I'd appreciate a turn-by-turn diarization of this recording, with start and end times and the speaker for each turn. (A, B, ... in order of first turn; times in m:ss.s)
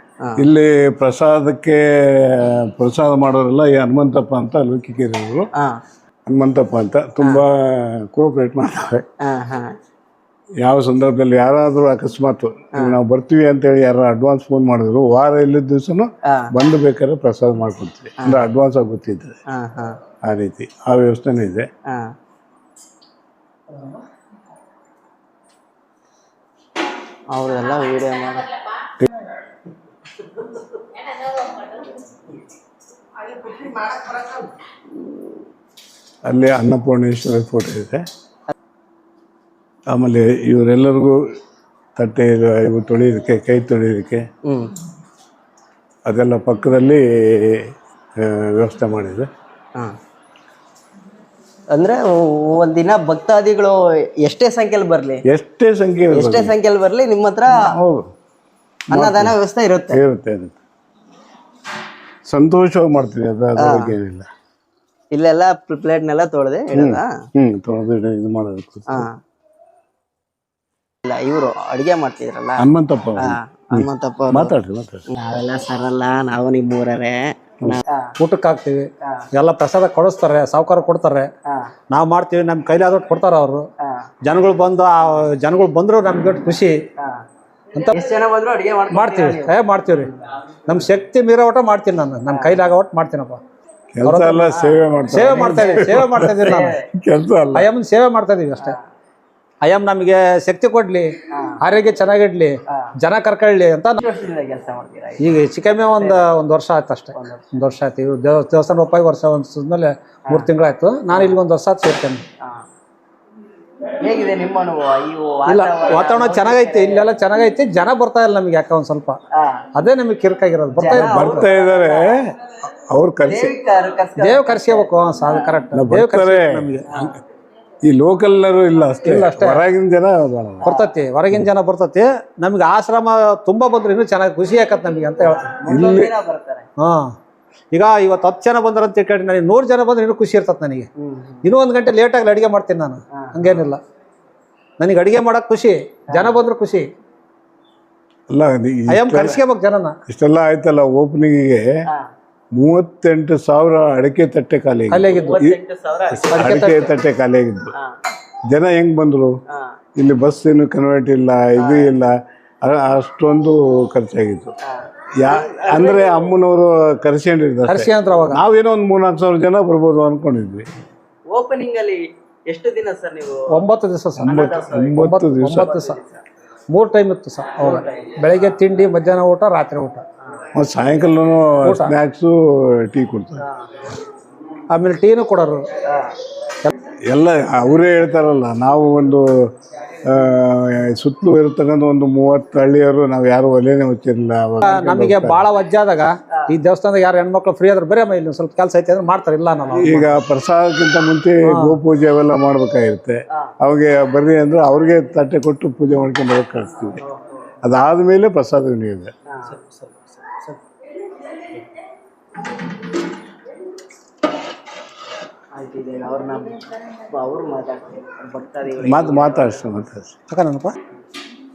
0:00.4-0:05.5 A
0:06.3-0:09.0 A
0:09.2-0:09.7 B
0:10.6-0:19.4 A
0:19.5-0:19.9 B
0:20.3-0:21.7 A
0:27.3-0:28.5 B
0:36.3-0:38.0 A
0:39.9-0:41.2 A
0:42.0-0:44.2 A
0:44.5-0:44.7 B
0:46.1-0:47.7 A
0:48.2-0:49.3 A
0:51.7-0:55.2 B
0:55.2-0:56.5 A
0:56.1-0:57.6 B
0:57.5-0:58.1 A
0:58.9-0:59.4 A
0:58.9-1:00.0 B
0:59.9-1:00.6 A
1:02.3-1:04.2 A
1:03.6-1:03.9 B
1:05.1-1:07.1 B
1:06.7-1:09.1 A
1:11.1-1:12.7 B
1:12.6-1:15.0 A
1:13.2-1:14.5 B
1:15.2-1:18.1 B
1:18.2-1:21.3 C
1:21.9-1:23.7 C
1:24.2-1:26.8 C
1:27.8-1:28.1 C
1:27.8-1:30.1 B
1:28.9-1:30.1 C
1:30.7-1:33.4 C
1:32.3-1:32.7 B
1:33.9-1:37.7 A
1:34.0-1:36.8 C
1:34.5-1:36.8 B
1:37.5-1:38.8 C
1:39.6-1:44.0 C
1:44.0-1:45.3 B
1:45.2-1:52.2 C
1:45.9-1:46.2 B
1:47.2-1:47.4 B
1:51.1-1:51.4 B
1:54.0-1:57.1 B
1:55.4-1:59.2 C
1:59.4-1:59.6 B
1:59.8-2:01.4 C
2:00.7-2:02.2 B
2:00.9-2:02.3 A
2:02.9-2:03.5 A
2:03.2-2:05.6 B
2:04.2-2:07.1 C
2:05.7-2:07.0 A
2:07.8-2:10.7 A
2:09.0-2:09.6 C
2:10.6-2:15.6 C
2:10.7-2:10.9 B
2:15.2-2:16.7 B
2:15.7-2:16.1 A
2:16.8-2:17.2 C
2:17.7-2:20.9 C
2:21.0-2:21.5 B
2:21.4-2:23.8 C
2:23.2-2:23.7 B
2:24.8-2:26.9 C
2:26.1-2:26.4 B
2:28.3-2:29.4 A
2:28.9-2:30.0 C
2:30.1-2:31.6 A
2:32.6-2:35.6 A
2:34.9-2:35.4 C
2:35.0-2:36.9 B
2:36.2-2:36.8 C
2:36.3-2:37.7 A
2:38.5-2:39.4 A
2:39.5-2:39.8 B
2:40.0-2:42.1 A
2:41.6-2:41.9 B
2:42.6-2:44.5 A
2:44.7-2:46.2 B
2:45.2-2:50.6 A
2:47.7-2:48.4 C
2:51.3-2:53.6 B
2:53.5-2:54.4 C
2:54.2-2:56.2 B
2:54.2-2:55.7 A
2:55.0-2:56.0 C
2:56.7-3:00.0 C
2:57.6-2:58.6 B
3:00.6-3:03.4 A
3:01.6-3:01.9 C
3:04.7-3:05.6 C
3:05.9-3:06.1 B
3:07.1-3:09.3 A
3:10.1-3:15.4 A
3:14.6-3:20.2 C
3:16.3-3:16.6 B
3:19.7-3:27.0 A
3:21.4-3:21.8 C
3:27.0-3:27.5 B
3:27.6-3:29.1 A
3:29.3-3:30.4 B
3:35.6-3:39.6 B
3:38.8-3:40.2 A
3:40.3-3:40.8 C